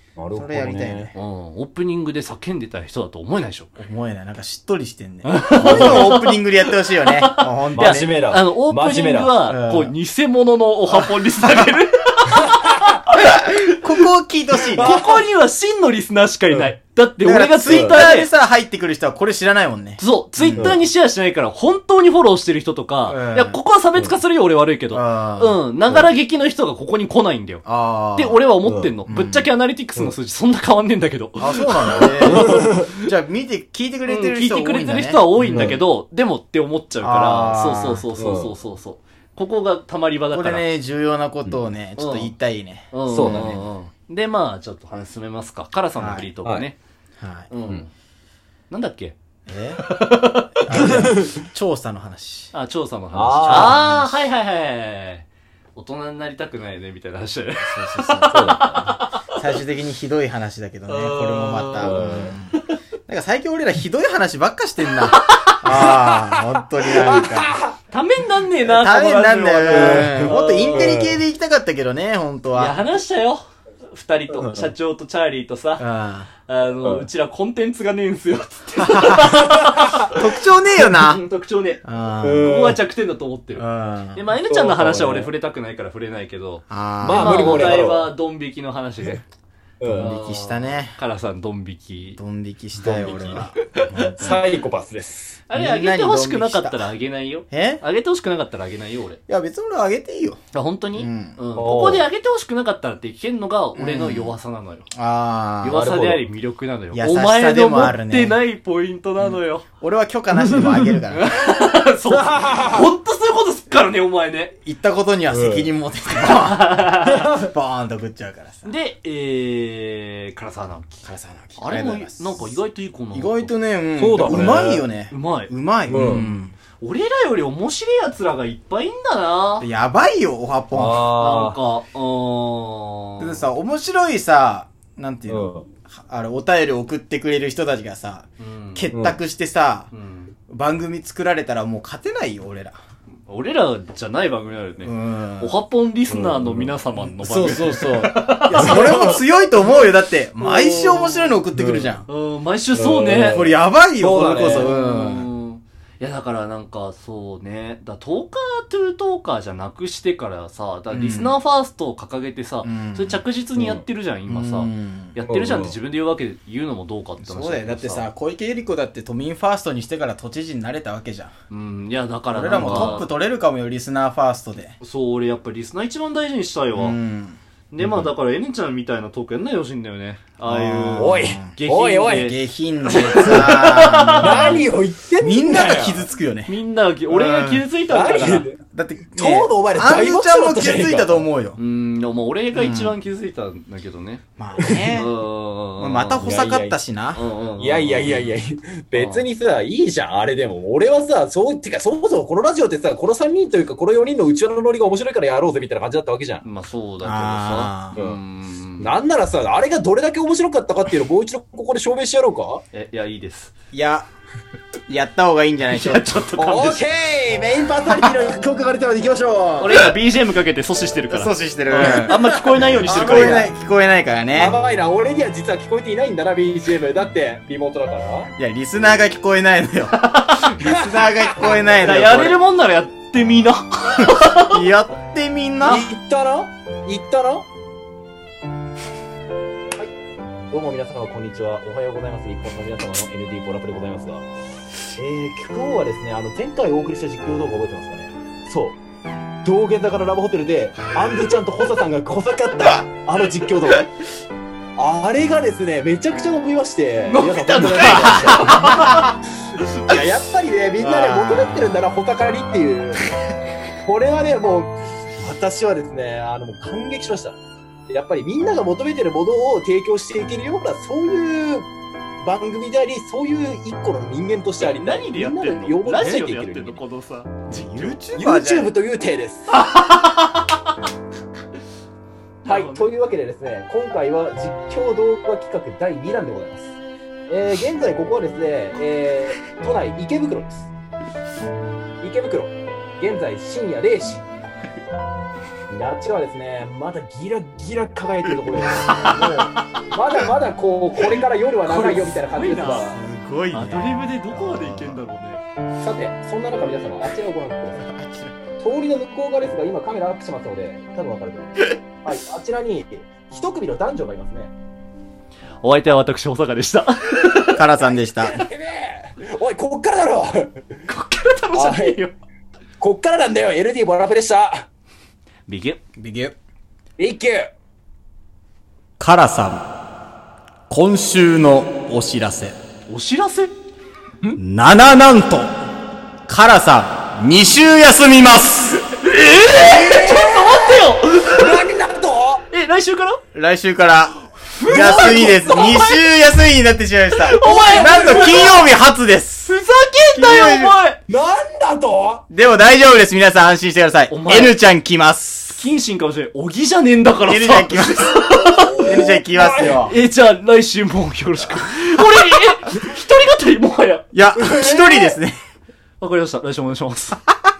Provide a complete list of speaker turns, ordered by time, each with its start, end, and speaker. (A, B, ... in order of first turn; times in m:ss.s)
0:00.2-0:01.1 A
0:00.3-0:01.2 B
0:01.1-0:03.7 C
0:03.8-0:08.1 B
0:05.2-0:13.6 C
0:05.6-0:06.1 A
0:07.7-0:09.4 A
0:09.5-0:09.9 B
0:13.3-0:15.0 B
0:14.8-0:18.3 C
0:14.8-0:15.2 A
0:17.2-0:20.8 B
0:17.7-0:18.0 A
0:20.0-0:27.6 C
0:23.1-0:23.6 B
0:24.9-0:25.6 B
0:27.6-0:28.4 B
0:28.2-0:33.0 C
0:28.7-0:28.9 A
0:29.1-0:29.5 B
0:31.4-0:35.7 B
0:32.3-0:32.9 A
0:34.1-0:40.7 C
0:35.5-0:35.8 A
0:37.0-0:38.1 B
0:38.2-0:38.5 A
0:40.3-0:43.6 B
0:42.0-0:42.3 C
0:42.9-0:46.8 C
0:43.1-0:43.7 A
0:46.0-0:46.3 B
0:47.2-0:47.5 B
0:47.5-0:47.9 C
0:48.7-0:49.2 C
0:49.5-0:49.8 B
0:49.8-0:51.0 C
0:50.6-0:52.5 B
0:50.7-0:51.3 A
0:52.5-0:59.2 C
0:53.1-0:53.8 A
0:53.3-0:54.3 B
0:57.6-0:58.5 B
0:58.3-0:59.0 A
0:59.2-1:07.6 B
1:00.9-1:02.6 C
1:01.8-1:02.3 A
1:05.2-1:05.6 C
1:05.7-1:07.7 A
1:07.9-1:11.0 C
1:08.6-1:12.8 B
1:09.7-1:11.2 A
1:12.5-1:15.8 C
1:14.4-1:14.7 A
1:15.8-1:16.3 B
1:16.4-1:29.2 C
1:18.8-1:21.2 B
1:21.8-1:22.5 B
1:22.2-1:22.8 A
1:23.6-1:24.2 B
1:24.4-1:25.3 A
1:26.7-1:27.8 B
1:27.0-1:28.1 A
1:29.8-1:30.1 A
1:29.9-1:31.0 B
1:29.9-1:32.2 C
1:32.2-1:34.4 B
1:32.8-1:35.4 A
1:35.5-1:39.2 C
1:35.5-1:36.8 B
1:37.5-1:37.8 B
1:39.3-1:40.4 B
1:40.5-1:44.9 C
1:41.0-1:41.4 B
1:41.6-1:42.1 A
1:43.8-1:44.4 B
1:44.9-1:45.9 B
1:45.6-1:49.6 C
1:45.7-1:46.2 A
1:46.9-1:48.4 B
1:49.2-1:51.3 B
1:51.1-1:54.6 C
1:52.2-1:52.9 A
1:54.6-1:58.7 B
1:55.3-1:55.7 A
1:56.2-1:57.3 C
1:58.6-2:01.1 C
2:01.0-2:02.6 B
2:01.6-2:03.5 C
2:03.1-2:06.6 B
2:04.0-2:04.9 A
2:04.3-2:05.5 C
2:05.9-2:06.3 A
2:06.8-2:09.7 C
2:09.6-2:11.1 B
2:10.7-2:11.6 A
2:11.1-2:13.5 C
2:13.2-2:19.9 B
2:15.3-2:15.6 A
2:18.4-2:18.9 C
2:18.9-2:19.2 A
2:19.9-2:20.3 C
2:20.5-2:22.8 B
2:23.3-2:29.2 C
2:24.8-2:25.6 B
2:26.1-2:26.7 A
2:27.0-2:32.1 B
2:28.5-2:29.2 A
2:30.4-2:31.4 C
2:31.6-2:31.9 A
2:32.1-2:33.4 C
2:32.7-2:34.7 A
2:33.2-2:35.3 B
2:34.4-2:48.1 C
2:40.9-2:41.4 B
2:42.6-2:43.2 B
2:43.6-2:43.8 A
2:44.3-2:45.2 B
2:45.2-2:45.8 A
2:47.2-2:51.3 B
2:51.5-2:53.1 C
2:52.3-2:54.8 B
2:52.6-2:53.0 A
2:54.8-2:57.0 C
2:56.8-2:58.1 B
2:57.7-3:02.4 C
3:00.4-3:01.5 B
3:01.0-3:02.3 A
3:02.1-3:04.7 B
3:02.9-3:06.1 A
3:02.9-3:04.6 C
3:05.2-3:06.5 B
3:06.5-3:08.5 C
3:07.1-3:07.7 B
3:07.9-3:08.6 A
3:08.7-3:11.6 B
3:09.1-3:11.2 A
3:11.6-3:16.2 C
3:12.6-3:13.0 B
3:14.4-3:15.1 B
3:14.6-3:15.0 A
3:15.8-3:17.2 B
3:16.2-3:16.8 A
3:17.1-3:18.3 C
3:17.6-3:26.4 A
3:18.9-3:19.2 C
3:26.4-3:28.9 C
3:27.0-3:28.0 B
3:28.8-3:32.6 A
3:32.7-3:33.5 C
3:33.7-3:34.1 B
3:34.9-3:36.1 B
3:35.7-3:36.8 C
3:36.4-3:40.0 A
3:39.6-3:43.5 C
3:41.1-3:44.6 B
3:42.7-3:43.5 A
3:44.3-3:48.3 A
3:48.4-3:52.4 B
3:49.9-3:50.6 C
3:50.6-3:51.6 A
3:51.8-3:54.6 C
3:54.0-3:55.9 B
3:55.6-3:57.5 A
4:00.5-4:04.2 A
4:05.0-4:08.8 A
4:09.4-4:13.9 A
4:14.8-4:18.8 A
4:17.1-4:19.2 C
4:18.6-4:19.0 B
4:19.8-4:23.2 A
4:20.8-4:21.7 B
4:23.8-4:27.4 A
4:27.9-4:31.7 A
4:32.2-4:36.8 A
4:34.6-4:38.0 C
4:37.5-4:38.8 B
4:38.2-4:39.5 A
4:39.5-4:40.7 C
4:42.4-4:46.8 A
4:42.5-4:42.9 C
4:47.3-4:50.7 A
4:52.0-4:54.2 A
4:55.7-5:03.0 A
4:58.8-4:59.6 C
4:59.0-4:59.4 B
5:01.7-5:02.9 C
5:02.7-5:05.0 B
5:03.5-5:05.4 C
5:05.8-5:07.8 A
5:07.8-5:08.5 B
5:08.6-5:14.5 A
5:15.6-5:17.7 C
5:17.5-5:18.4 B
5:18.2-5:20.6 A
5:20.9-5:22.2 C
5:21.5-5:22.0 A
5:22.8-5:24.7 A
5:25.5-5:25.8 C
5:26.0-5:26.4 B
5:27.0-5:27.5 A
5:29.0-5:29.7 B
5:30.7-5:32.6 B
5:32.9-5:33.5 C
5:34.4-5:35.5 B
5:36.3-5:38.8 B
5:38.9-5:41.6 C
5:39.5-5:42.5 A
5:42.5-5:43.2 C
5:43.3-5:49.5 B
5:44.6-5:46.0 C
5:44.7-5:45.6 A
5:47.2-5:48.6 C
5:47.4-5:48.6 A
5:49.4-5:51.0 C
5:50.1-5:50.8 B
5:51.1-5:52.2 A
5:52.3-5:55.6 B
5:54.1-5:54.6 C
5:55.5-5:58.8 C
5:57.2-5:58.2 B
5:58.5-5:59.8 A
5:58.8-6:00.0 B
5:59.9-6:04.1 C
6:04.1-6:05.4 B
6:04.4-6:05.2 A
6:06.0-6:07.2 C